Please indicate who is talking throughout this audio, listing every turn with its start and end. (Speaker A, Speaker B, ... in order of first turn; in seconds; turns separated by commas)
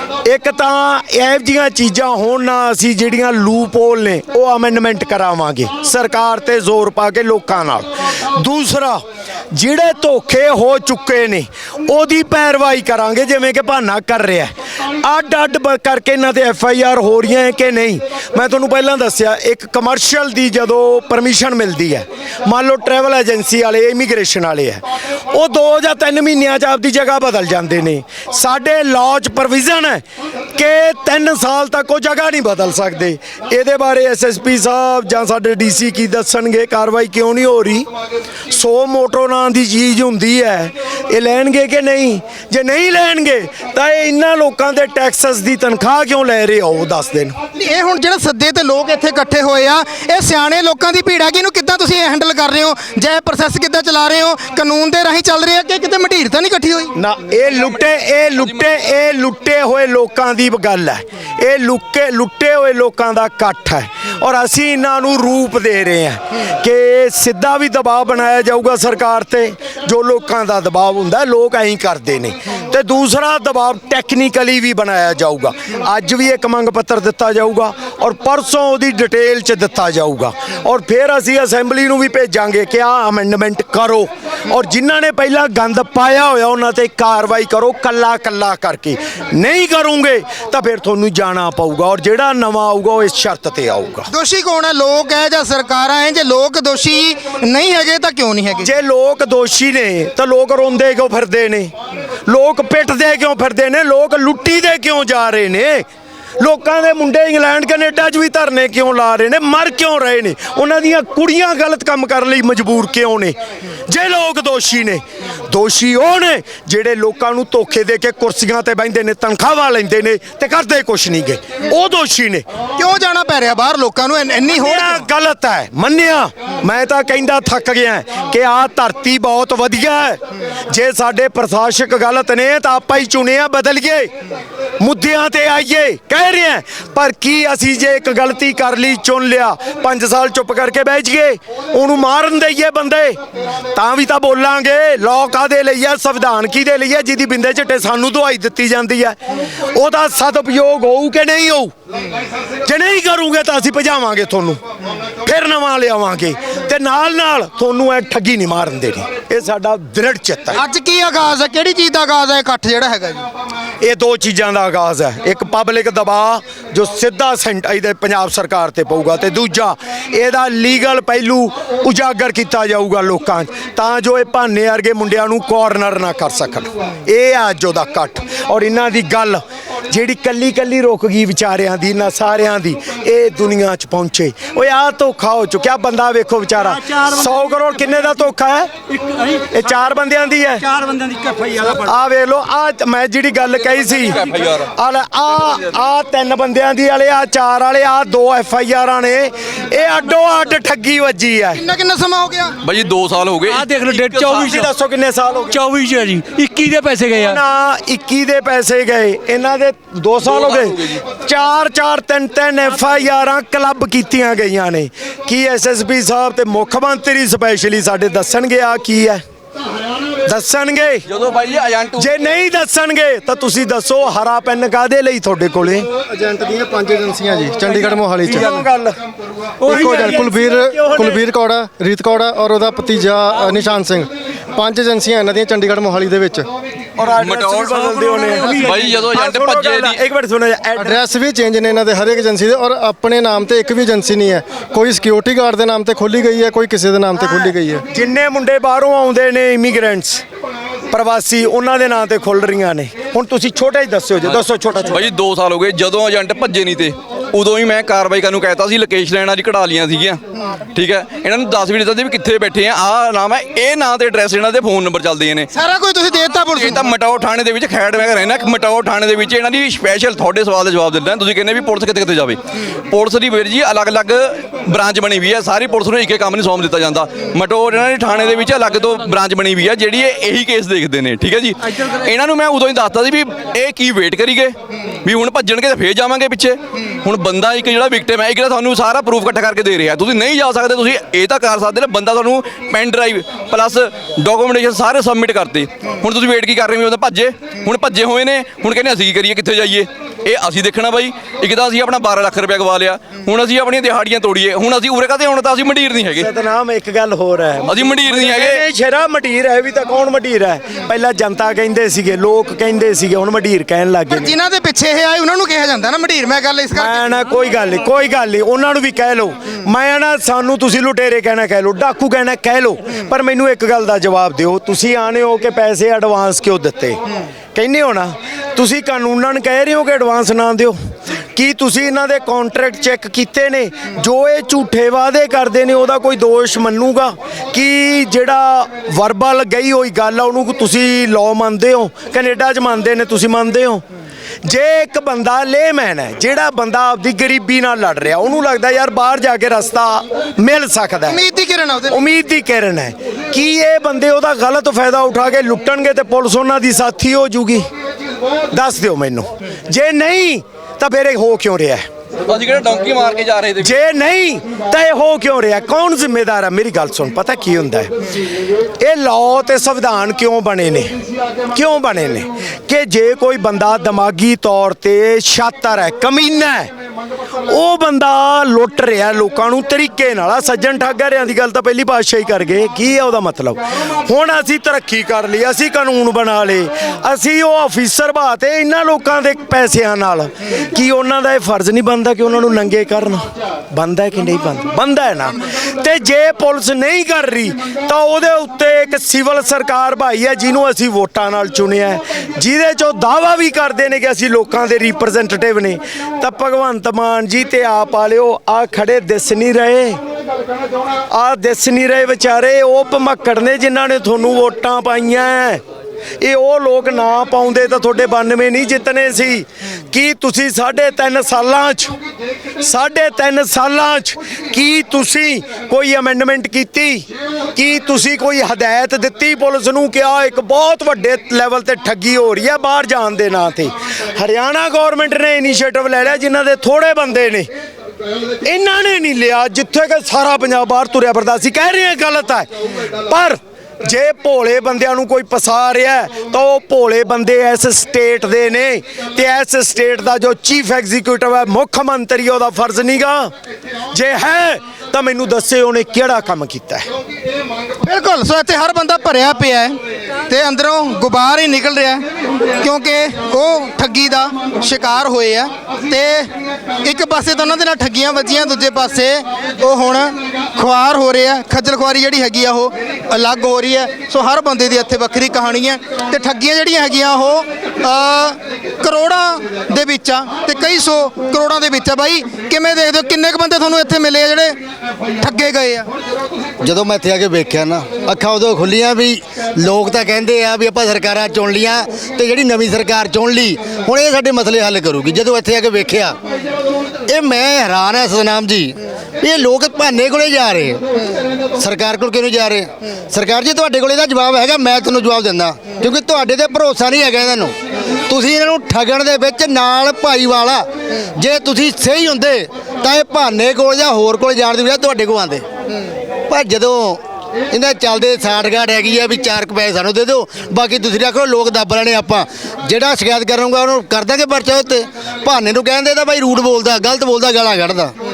Speaker A: 0.2-30.0, Speaker A: 30.6-37.9, Speaker A: 38.5-47.4, Speaker B: 47.6-56.9, Speaker A: 56.9-94.1, Speaker C: 57.4-58.7, Speaker B: 94.1-98.7, Speaker A: 98.6-101.7, Speaker A: 102.3-105.8, Speaker A: 106.4-113.3, Speaker A: 113.9-122.4, Speaker B: 122.8-125.0, Speaker A: 124.5-134.1, Speaker A: 134.8-143.2, Speaker A: 143.7-149.2, Speaker A: 149.7-151.7, Speaker A: 152.7-154.6, Speaker A: 155.2-160.6, Speaker B: 160.5-163.2, Speaker A: 163.8-188.7, Speaker D: 189.0-189.4, Speaker A: 189.5-190.7, Speaker D: 190.7-191.8, Speaker A: 191.7-194.2, Speaker C: 193.9-194.7, Speaker A: 194.7-201.6, Speaker B: 201.6-202.5, Speaker C: 202.6-204.6, Speaker D: 203.5-204.7, Speaker A: 204.4-205.6, Speaker D: 205.5-207.4, Speaker A: 207.2-219.2, Speaker C: 210.2-211.0, Speaker A: 220.3-221.1, Speaker C: 221.1-222.1, Speaker A: 222.0-225.9, Speaker E: 226.1-228.6, Speaker A: 227.8-228.9, Speaker D: 229.6-230.4, Speaker E: 229.7-236.4, Speaker A: 229.7-231.2, Speaker A: 237.0-241.0, Speaker C: 237.2-240.0, Speaker D: 238.3-238.9, Speaker E: 240.8-247.8, Speaker A: 247.9-250.2, Speaker A: 250.9-255.1, Speaker C: 254.9-260.2, Speaker C: 260.7-265.5, Speaker B: 265.5-266.8, Speaker C: 266.6-306.3, Speaker A: 306.2-314.3, Speaker C: 307.7-308.6, Speaker B: 314.1-317.1, Speaker A: 316.7-327.0, Speaker A: 327.5-330.8, Speaker A: 331.3-343.8, Speaker A: 344.4-351.2, Speaker B: 351.1-352.0, Speaker A: 351.9-357.7, Speaker A: 358.5-361.9, Speaker C: 362.3-363.7, Speaker A: 363.6-367.9, Speaker A: 368.8-370.9, Speaker A: 371.5-376.7, Speaker A: 377.5-410.0, Speaker A: 411.1-415.6, Speaker A: 416.2-421.9, Speaker A: 422.6-437.5, Speaker A: 438.4-442.5, Speaker A: 443.0-453.3, Speaker A: 453.9-456.9, Speaker B: 457.8-459.8, Speaker B: 460.3-462.0, Speaker B: 462.6-466.3, Speaker B: 466.8-484.6, Speaker B: 485.2-485.9, Speaker F: 486.6-496.2, Speaker F: 497.1-500.8, Speaker F: 501.6-515.4, Speaker F: 516.3-527.9